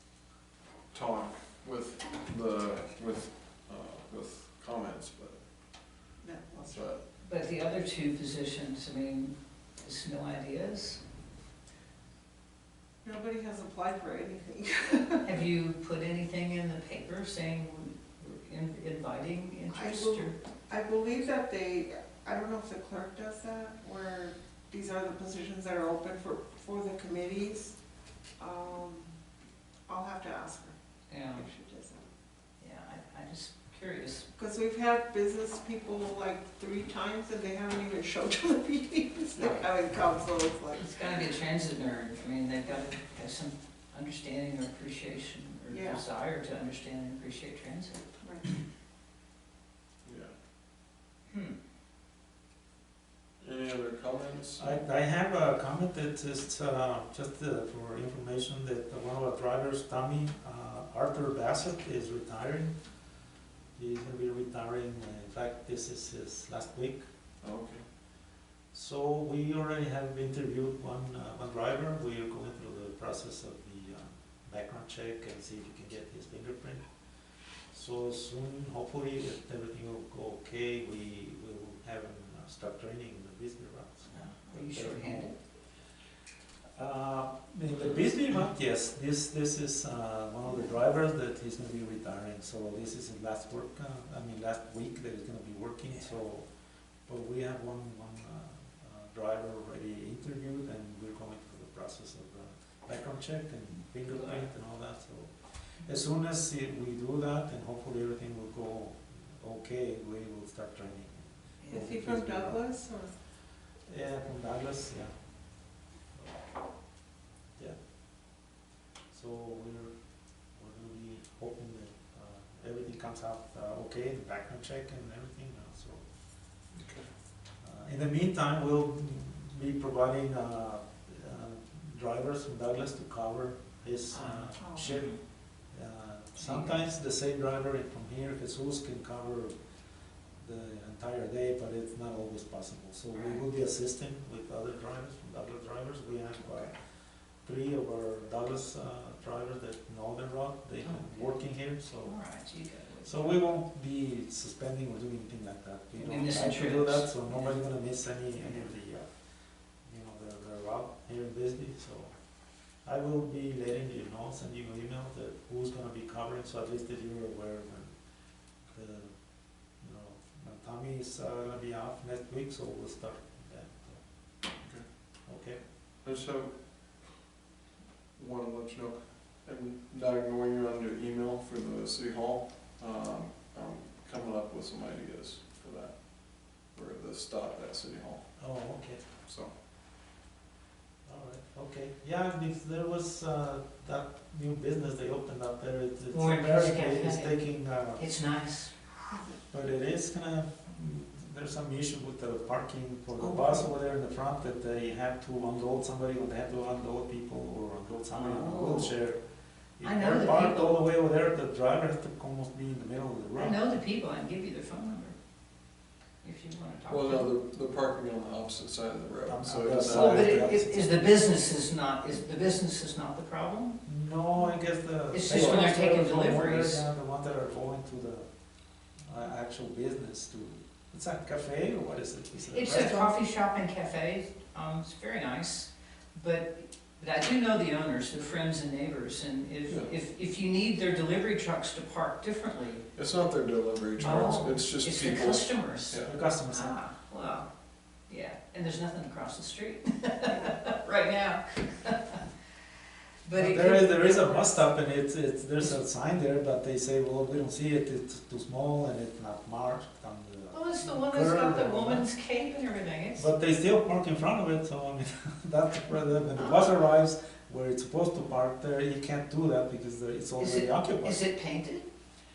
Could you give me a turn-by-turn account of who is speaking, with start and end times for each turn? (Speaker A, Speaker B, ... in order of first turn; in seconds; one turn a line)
Speaker A: 0.9-5.4
Speaker B: 6.2-6.9
Speaker A: 6.7-7.0
Speaker C: 7.2-11.0
Speaker B: 13.0-15.3
Speaker C: 15.2-20.3
Speaker B: 19.7-27.8
Speaker B: 28.4-29.1
Speaker B: 29.9-30.7
Speaker C: 31.1-31.5
Speaker B: 31.3-32.0
Speaker C: 32.6-34.3
Speaker B: 34.4-41.1
Speaker A: 39.4-39.6
Speaker C: 40.8-48.0
Speaker B: 45.7-46.0
Speaker B: 48.2-48.5
Speaker A: 50.0-50.3
Speaker C: 51.3-51.5
Speaker A: 53.4-54.8
Speaker D: 54.6-62.8
Speaker D: 63.8-67.0
Speaker A: 67.4-67.8
Speaker D: 68.7-76.8
Speaker D: 77.7-85.3
Speaker C: 84.1-85.3
Speaker D: 86.8-96.5
Speaker D: 97.0-112.6
Speaker C: 104.1-104.4
Speaker B: 111.7-113.1
Speaker D: 113.8-115.1
Speaker D: 116.1-116.4
Speaker D: 119.1-119.9
Speaker D: 120.5-126.0
Speaker A: 126.7-127.1
Speaker D: 127.6-139.5
Speaker C: 134.1-135.2
Speaker B: 134.6-134.9
Speaker C: 136.3-136.8
Speaker D: 140.4-146.8
Speaker C: 143.1-143.4
Speaker D: 147.4-152.4
Speaker C: 150.8-151.4
Speaker C: 152.0-153.4
Speaker D: 153.0-159.1
Speaker C: 155.9-157.5
Speaker D: 159.8-162.1
Speaker D: 162.8-167.9
Speaker D: 168.7-169.1
Speaker D: 169.7-174.0
Speaker A: 174.6-174.9
Speaker D: 175.2-175.7
Speaker A: 176.0-177.2
Speaker A: 178.1-189.5
Speaker D: 188.4-189.1
Speaker D: 191.1-198.1
Speaker C: 196.1-198.7
Speaker D: 199.5-209.2
Speaker C: 203.2-203.7
Speaker C: 208.1-209.0
Speaker D: 209.8-213.6
Speaker C: 209.8-210.8
Speaker C: 213.3-215.2
Speaker C: 216.2-217.3
Speaker A: 216.9-220.5
Speaker D: 219.2-221.1
Speaker C: 219.7-223.8
Speaker D: 223.8-228.2
Speaker C: 225.1-226.8
Speaker A: 225.3-225.6
Speaker D: 229.0-233.1
Speaker C: 232.5-242.8
Speaker A: 242.9-246.1
Speaker C: 244.0-247.5
Speaker D: 246.0-246.8
Speaker C: 248.1-252.2
Speaker C: 253.2-254.7
Speaker D: 253.3-262.1
Speaker C: 260.5-263.3
Speaker D: 263.1-271.2
Speaker C: 266.4-266.7
Speaker C: 270.4-271.8